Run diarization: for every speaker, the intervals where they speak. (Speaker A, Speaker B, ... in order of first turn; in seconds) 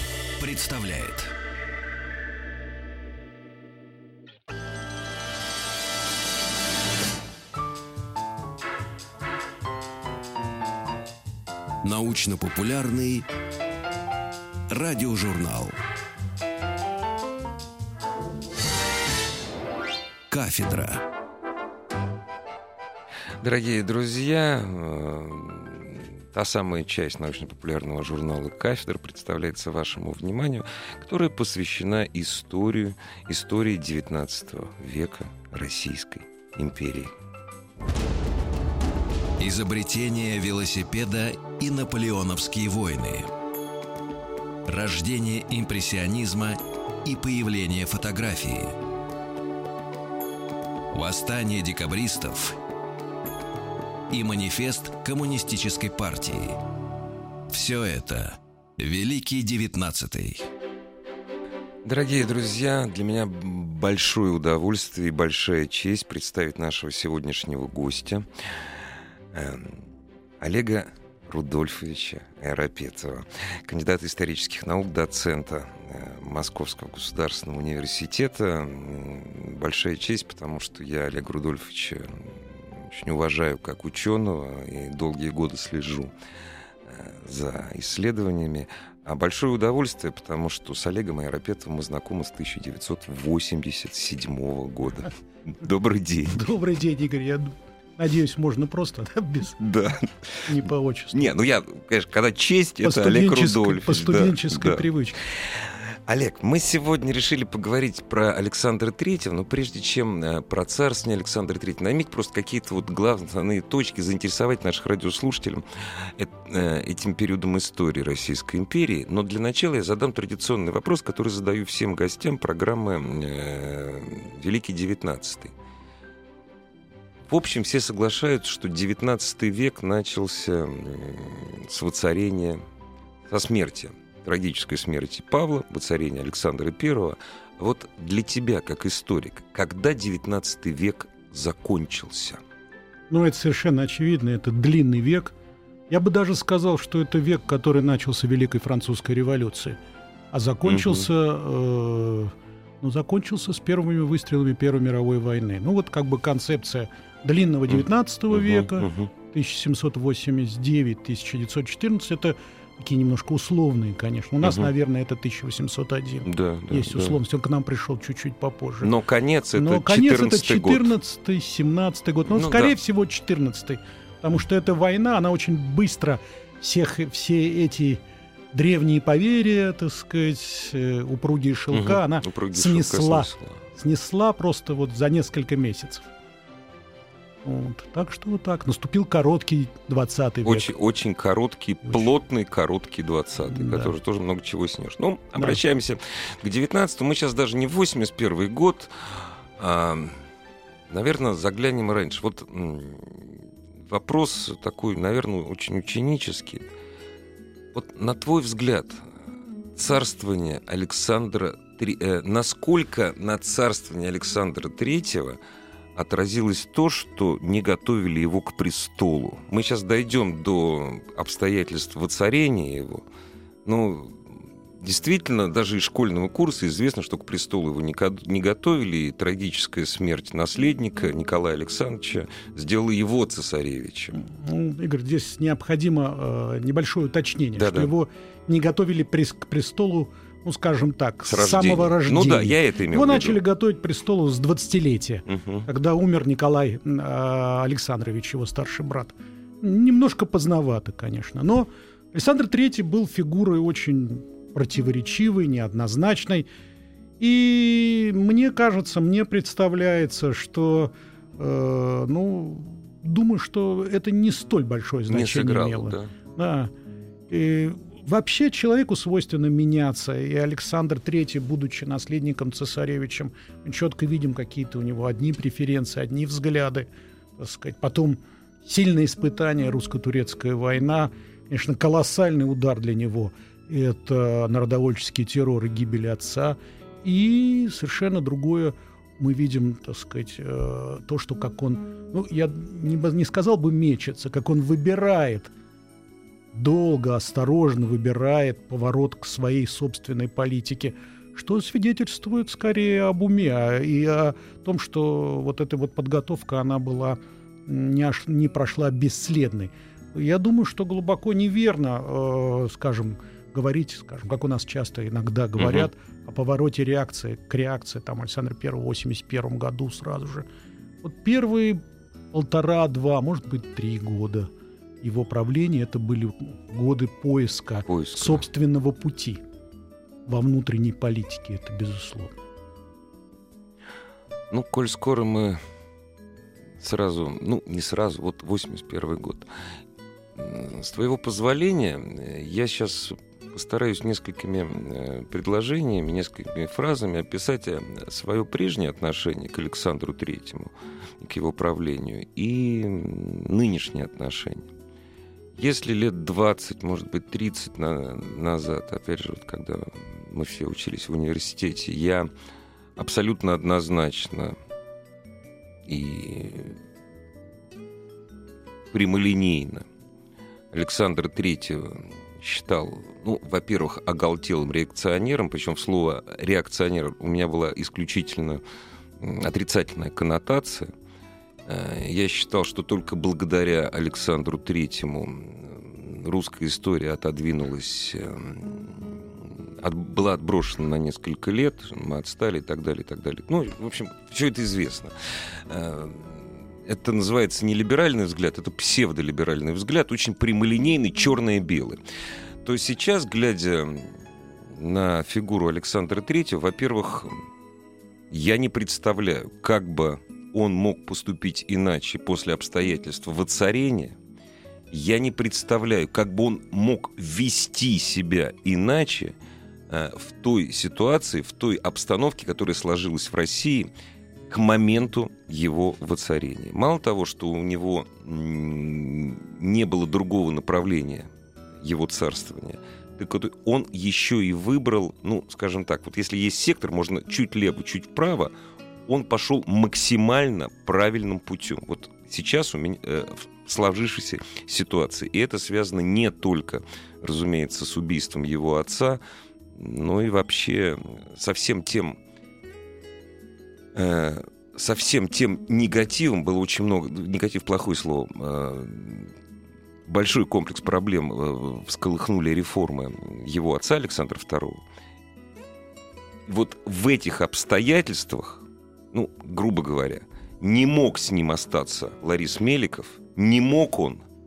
Speaker A: 0.4-1.3, 11.8-13.2, 14.7-15.8, 20.3-21.0, 39.4-43.3, 44.7-48.8, 50.9-52.6, 54.1-56.6, 57.5-60.5
Speaker B: 23.4-37.1, 61.8-68.6, 69.3-69.8, 70.4-86.1, 86.8-96.5, 99.6-100.6, 101.1-125.5, 127.3-132.6, 133.3-142.4, 150.6-151.1, 157.7-159.1, 164.4-164.7, 166.2-167.2, 168.8-170.9, 172.3-172.7, 181.7-183.6, 190.4-200.2, 200.9-206.7, 207.7-209.1, 209.7-215.4, 215.9-223.0, 223.6-234.2, 237.6-237.9, 241.3-243.4, 245.3-245.7, 265.1-266.1, 315.6-315.9, 327.9-328.4, 334.5-335.6, 336.8-339.5, 340.4-354.7, 355.6-362.3, 362.9-364.6, 365.9-366.8, 368.9-369.8, 370.7-378.6, 379.2-380.9, 381.6-402.0, 402.6-407.4, 408.3-414.1, 414.9-419.4, 419.9-423.9, 424.5-431.3, 431.8-438.5, 439.1-449.2, 449.7-452.2, 453.9-459.3, 460.1-464.8, 466.5-474.2
Speaker C: 96.3-99.6, 100.5-101.3, 102.8-105.2, 143.1-145.3, 145.9-149.8, 150.3-168.9, 169.5-178.0, 178.5-186.1, 187.4-190.7, 193.5-193.9, 234.1-256.4, 257.2-266.7, 267.3-276.9, 277.4-295.5, 296.5-320.4, 321.0-321.8, 322.3-324.5, 325.0-329.4, 330.2-332.4